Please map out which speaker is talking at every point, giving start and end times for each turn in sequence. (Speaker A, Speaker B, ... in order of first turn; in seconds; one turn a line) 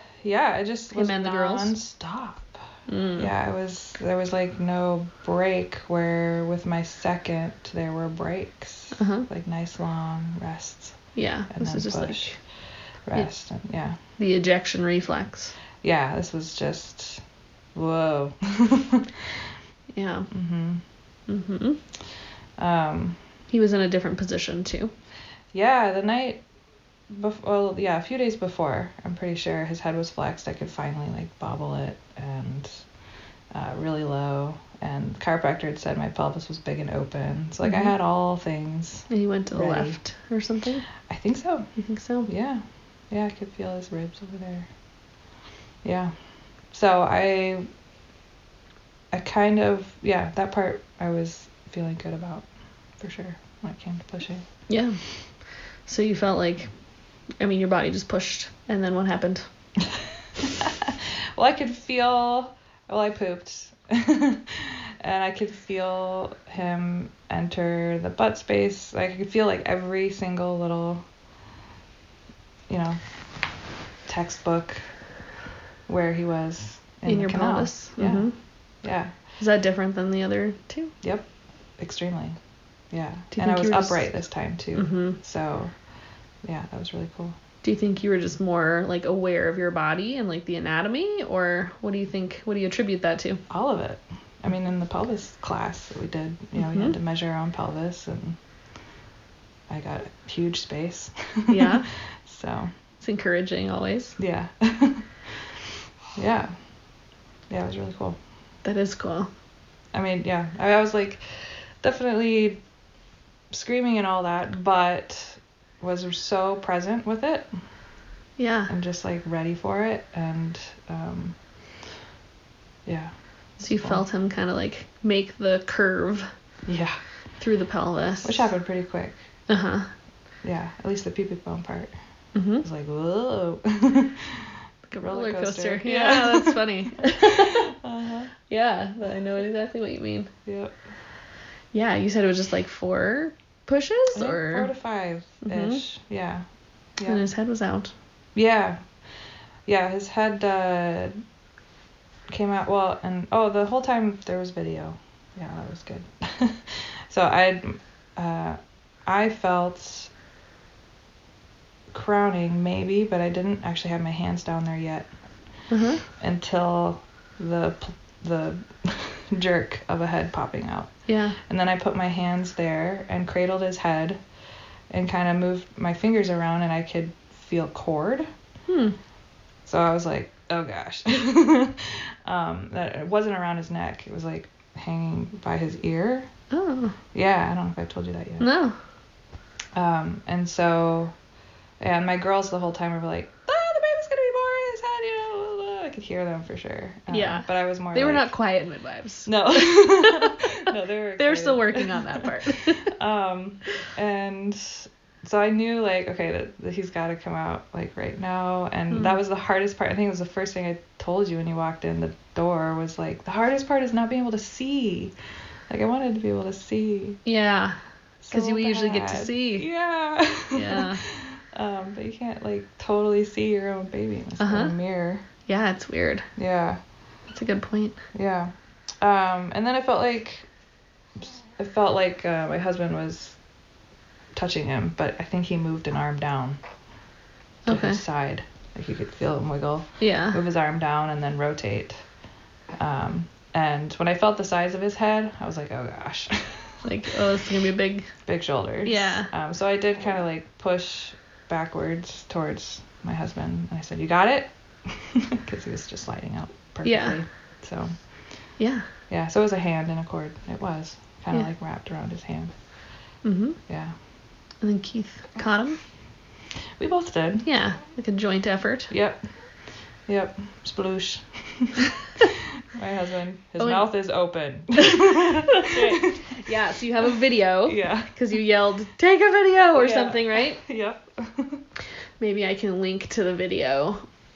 Speaker A: 0.2-2.7
Speaker B: 0.9-1.8
Speaker B: 2.9-3.3
Speaker A: 3.2-12.4
Speaker B: 9.0-9.3
Speaker B: 11.2-12.4
Speaker A: 13.1-14.0
Speaker B: 14.2-15.6
Speaker A: 15.8-17.2
Speaker A: 17.8-19.4
Speaker B: 19.9-20.3
Speaker A: 20.3-20.8
Speaker B: 21.3-21.8
Speaker A: 22.6-23.2
Speaker B: 23.5-24.9
Speaker A: 25.5-26.4
Speaker A: 27.1-32.8
Speaker A: 33.5-40.0
Speaker B: 37.6-37.9
Speaker B: 39.1-40.9
Speaker A: 41.0-41.7
Speaker B: 41.8-42.3
Speaker A: 42.3-44.7
Speaker A: 45.8-47.7
Speaker A: 49.1-54.5
Speaker B: 54.7-55.3
Speaker B: 55.8-56.7
Speaker B: 57.4-59.5
Speaker A: 60.4-71.0
Speaker A: 72.7-75.0
Speaker A: 75.9-79.1
Speaker B: 77.1-78.4
Speaker B: 79.4-81.0
Speaker A: 81.0-81.3
Speaker A: 81.8-82.4
Speaker A: 82.9-85.8
Speaker B: 83.3-84.1
Speaker B: 84.7-85.2
Speaker A: 86.4-87.4
Speaker B: 87.6-93.4
Speaker A: 93.5-98.4
Speaker B: 96.6-97.0
Speaker A: 99.7-102.7
Speaker B: 101.5-101.9
Speaker B: 103.0-104.2
Speaker A: 104.2-105.6
Speaker A: 106.2-106.6
Speaker A: 107.5-108.2
Speaker B: 108.6-109.3
Speaker A: 109.9-112.6
Speaker A: 113.5-117.6
Speaker B: 118.4-118.7
Speaker A: 118.7-121.6
Speaker A: 122.9-124.0
Speaker B: 123.6-126.3
Speaker A: 126.7-127.0
Speaker B: 127.4-128.5
Speaker A: 128.2-129.2
Speaker B: 129.5-129.9
Speaker A: 130.4-131.9
Speaker B: 132.3-132.7
Speaker A: 132.6-138.3
Speaker B: 134.9-137.7
Speaker B: 138.5-140.3
Speaker A: 140.5-140.8
Speaker B: 141.7-144.7
Speaker A: 144.2-146.5
Speaker B: 145.4-145.8
Speaker A: 147.0-147.2
Speaker B: 147.1-147.9
Speaker A: 148.3-148.9
Speaker A: 149.7-151.2
Speaker A: 152.3-160.1
Speaker A: 161.9-165.1
Speaker B: 165.7-166.0
Speaker A: 166.2-174.2
Speaker B: 171.1-171.4
Speaker A: 174.9-178.3
Speaker B: 178.7-179.0
Speaker A: 179.6-186.3
Speaker B: 186.5-187.0
Speaker A: 187.1-188.5
Speaker B: 188.4-188.8
Speaker A: 189.8-191.2
Speaker A: 191.8-198.3
Speaker B: 197.1-200.4
Speaker A: 199.3-215.2
Speaker B: 201.2-202.9
Speaker B: 208.9-209.2
Speaker A: 215.7-217.2
Speaker B: 217.2-217.8
Speaker A: 218.2-225.2
Speaker B: 218.3-219.7
Speaker B: 220.5-221.0
Speaker B: 224.4-224.8
Speaker B: 225.4-226.3
Speaker A: 226.4-226.8
Speaker B: 227.3-228.0
Speaker A: 228.1-230.5
Speaker A: 231.2-233.4
Speaker A: 234.3-236.6
Speaker B: 237.7-238.0
Speaker A: 237.7-242.1
Speaker B: 240.0-240.4
Speaker A: 242.8-246.8
Speaker B: 246.8-248.1
Speaker A: 248.3-258.1
Speaker B: 248.8-249.3
Speaker B: 256.9-257.2
Speaker B: 258.6-258.9
Speaker A: 259.1-262.6
Speaker B: 263.2-263.6
Speaker A: 263.7-263.9
Speaker B: 264.6-265.8
Speaker A: 266.8-267.5
Speaker B: 267.4-268.9
Speaker A: 268.9-269.2
Speaker A: 270.1-276.2
Speaker B: 273.6-273.9
Speaker B: 275.5-280.6
Speaker A: 277.7-278.1
Speaker A: 279.7-281.6
Speaker B: 282.2-284.1